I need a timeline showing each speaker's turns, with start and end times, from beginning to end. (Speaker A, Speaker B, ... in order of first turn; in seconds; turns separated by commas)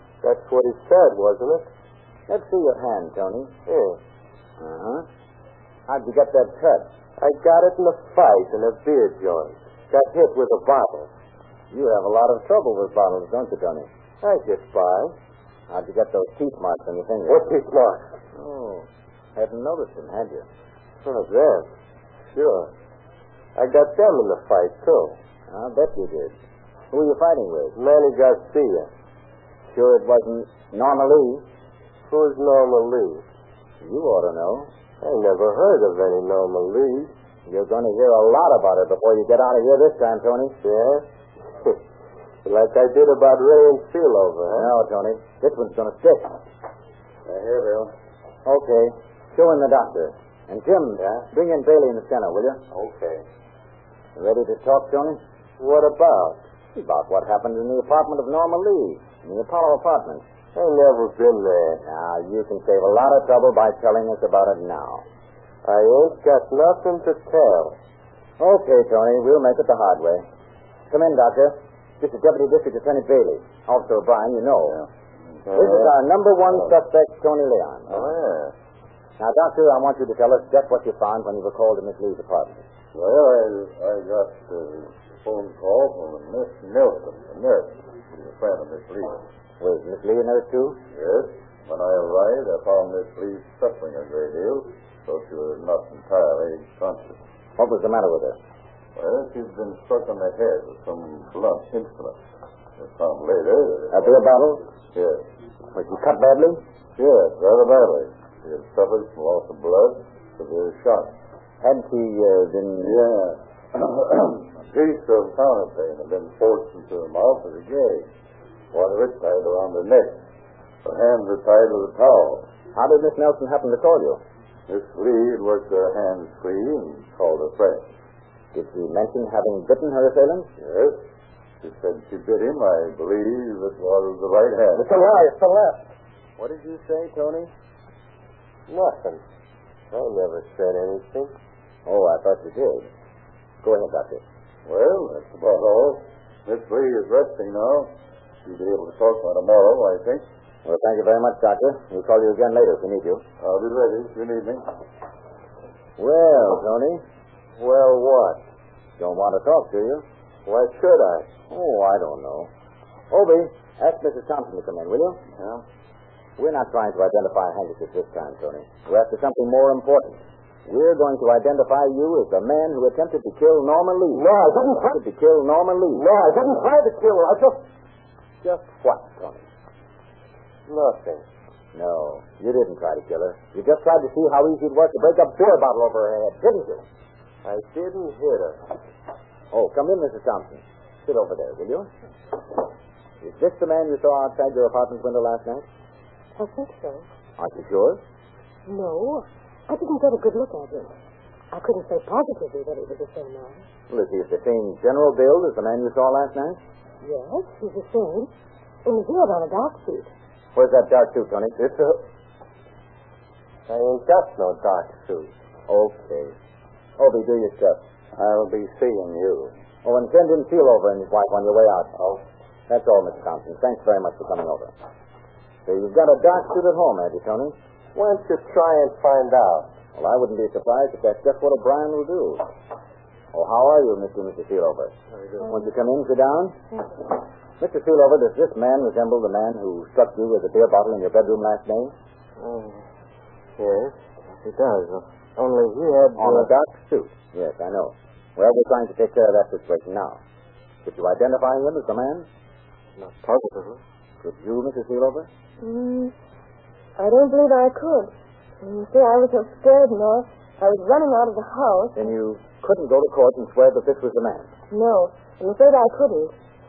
Speaker A: 0.2-1.7, Speaker B: 2.3-3.5, Speaker A: 3.7-4.0, Speaker B: 4.6-5.0, Speaker B: 5.9-6.9, Speaker A: 7.2-11.1, Speaker B: 11.7-13.9, Speaker A: 14.2-15.1, Speaker B: 15.7-17.4, Speaker A: 17.3-18.0, Speaker B: 18.4-20.4, Speaker A: 21.0-21.7, Speaker A: 22.3-22.7, Speaker A: 23.6-25.1, Speaker B: 25.5-26.3, Speaker B: 26.9-27.8, Speaker A: 27.7-28.9, Speaker B: 29.7-31.4, Speaker A: 32.1-33.2, Speaker B: 33.8-34.7, Speaker A: 35.0-37.1, Speaker B: 37.5-40.6, Speaker A: 40.6-41.0, Speaker A: 42.4-44.7, Speaker B: 44.5-46.4, Speaker C: 47.2-47.9, Speaker B: 48.4-52.6, Speaker C: 52.8-53.2, Speaker B: 54.1-55.2, Speaker A: 55.6-56.4, Speaker B: 56.7-60.2, Speaker A: 60.5-61.8, Speaker B: 61.8-65.0, Speaker A: 65.6-67.8, Speaker B: 68.4-70.2, Speaker B: 70.9-74.8, Speaker A: 75.5-75.9, Speaker B: 75.5-78.1, Speaker C: 77.9-78.5, Speaker B: 79.2-82.6, Speaker C: 82.9-89.2, Speaker B: 89.6-90.8, Speaker C: 90.9-97.2, Speaker B: 97.6-98.4, Speaker C: 99.0-102.2, Speaker C: 102.8-104.2, Speaker B: 103.9-104.6, Speaker C: 104.9-105.2, Speaker B: 105.7-106.6, Speaker C: 107.0-111.1, Speaker B: 111.6-113.0, Speaker C: 112.8-118.1, Speaker C: 118.7-120.2, Speaker C: 120.8-122.5, Speaker B: 122.7-124.2, Speaker C: 124.7-127.8, Speaker B: 128.5-130.5, Speaker C: 130.6-131.0, Speaker C: 131.6-134.8, Speaker A: 134.7-135.9, Speaker B: 136.4-137.5, Speaker A: 138.7-139.2, Speaker A: 139.9-141.3, Speaker B: 141.8-142.9, Speaker B: 143.6-144.2, Speaker C: 144.7-147.9, Speaker C: 148.4-150.2, Speaker B: 150.6-153.2, Speaker C: 153.4-154.6, Speaker B: 156.0-157.0, Speaker A: 157.6-158.4, Speaker B: 159.0-160.0, Speaker A: 160.4-161.3, Speaker B: 161.5-162.5, Speaker B: 163.1-165.2, Speaker B: 166.4-176.0, Speaker A: 174.1-175.0, Speaker A: 175.9-177.6, Speaker B: 178.4-179.4, Speaker A: 180.7-181.2, Speaker B: 181.7-186.8, Speaker A: 187.4-188.6, Speaker B: 189.5-191.9, Speaker B: 193.2-195.7, Speaker D: 196.4-197.0, Speaker B: 197.4-198.0, Speaker D: 198.7-200.9, Speaker D: 201.5-203.6, Speaker B: 203.9-206.6, Speaker D: 207.0-208.3, Speaker D: 208.8-210.1, Speaker B: 210.5-212.0, Speaker A: 213.7-215.3, Speaker B: 215.7-216.3, Speaker B: 217.0-217.8, Speaker C: 218.1-219.5, Speaker B: 219.8-221.9, Speaker B: 222.7-224.7, Speaker B: 225.7-227.5, Speaker A: 227.9-229.7, Speaker B: 229.9-232.4, Speaker B: 233.3-236.6, Speaker B: 237.6-241.9, Speaker E: 242.4-242.8, Speaker E: 243.6-246.5, Speaker B: 246.2-250.2, Speaker B: 250.8-252.3, Speaker E: 253.0-253.8, Speaker B: 254.2-255.3, Speaker D: 255.6-256.1, Speaker D: 257.0-262.1, Speaker B: 261.9-264.5, Speaker D: 264.7-266.3